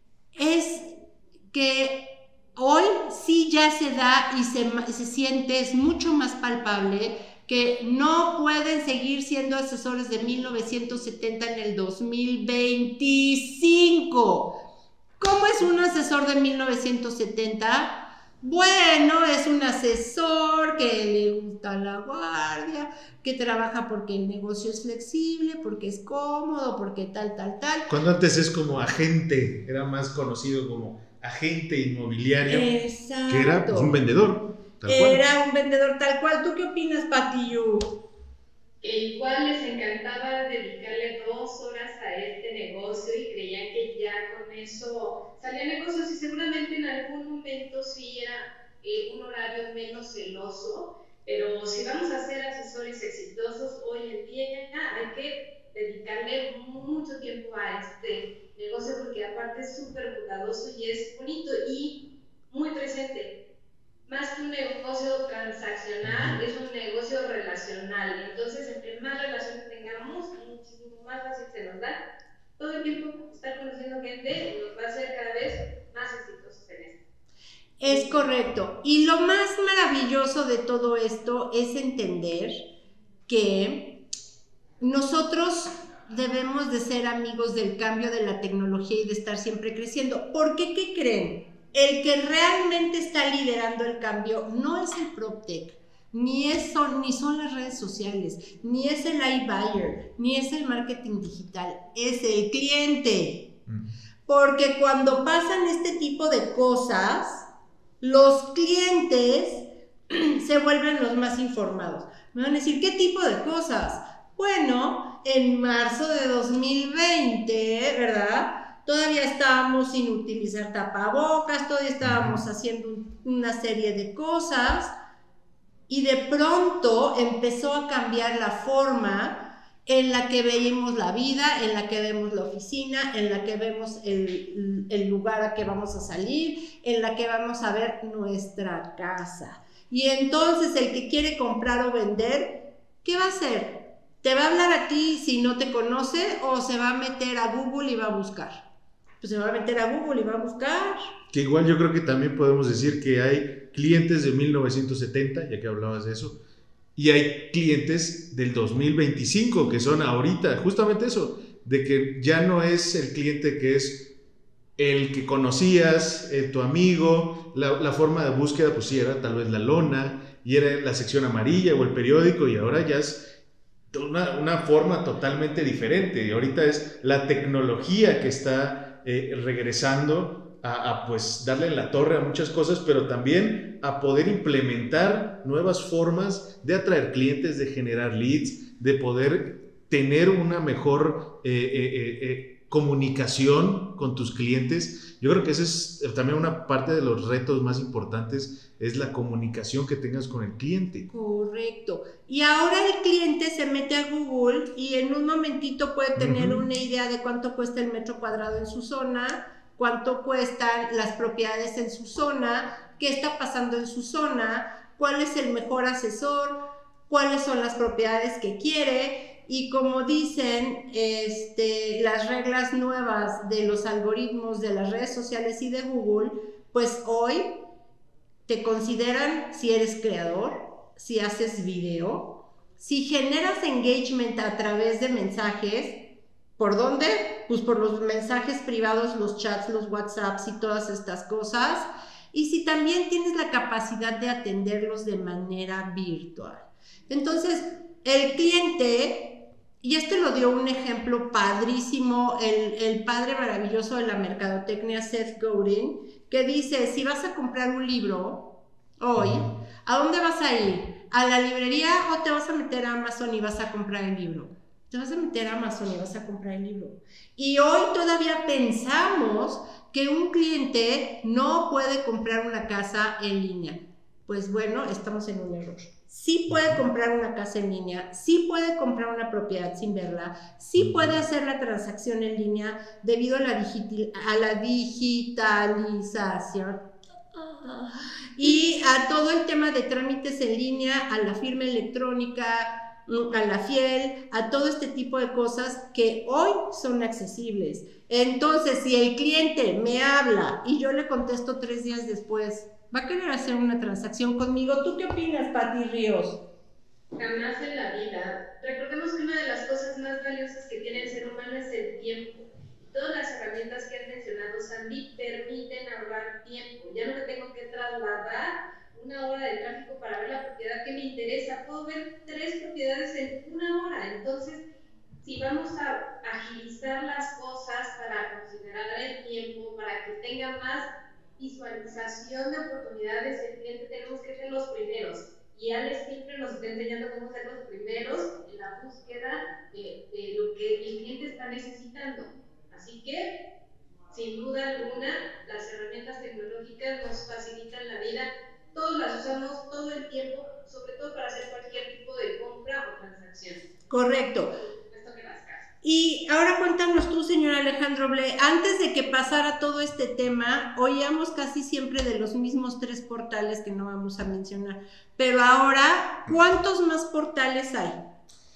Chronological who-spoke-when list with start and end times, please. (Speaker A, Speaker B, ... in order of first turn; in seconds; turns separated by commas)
Speaker A: 0.3-14.6, Speaker A: 15.2-27.9, Speaker B: 27.9-32.7, Speaker A: 32.5-34.0, Speaker B: 33.3-35.2, Speaker A: 34.8-37.9, Speaker C: 38.8-63.4, Speaker C: 64.0-72.0, Speaker B: 66.0-66.4, Speaker C: 72.6-77.0, Speaker A: 77.8-82.7, Speaker A: 83.3-84.0, Speaker A: 84.8-103.6, Speaker A: 104.3-107.5, Speaker A: 108.0-124.9, Speaker B: 122.0-122.4, Speaker A: 125.9-148.6, Speaker A: 149.2-151.0, Speaker B: 151.3-156.4, Speaker B: 156.9-164.1, Speaker B: 164.8-173.3, Speaker B: 173.9-201.1, Speaker A: 201.1-227.7, Speaker B: 206.2-206.6, Speaker A: 228.4-306.4, Speaker B: 259.2-259.4, Speaker B: 276.5-276.8, Speaker B: 280.8-281.1, Speaker C: 307.1-324.6, Speaker C: 325.2-343.5, Speaker C: 344.1-353.6, Speaker A: 353.9-354.5, Speaker C: 354.9-355.7, Speaker A: 355.8-368.0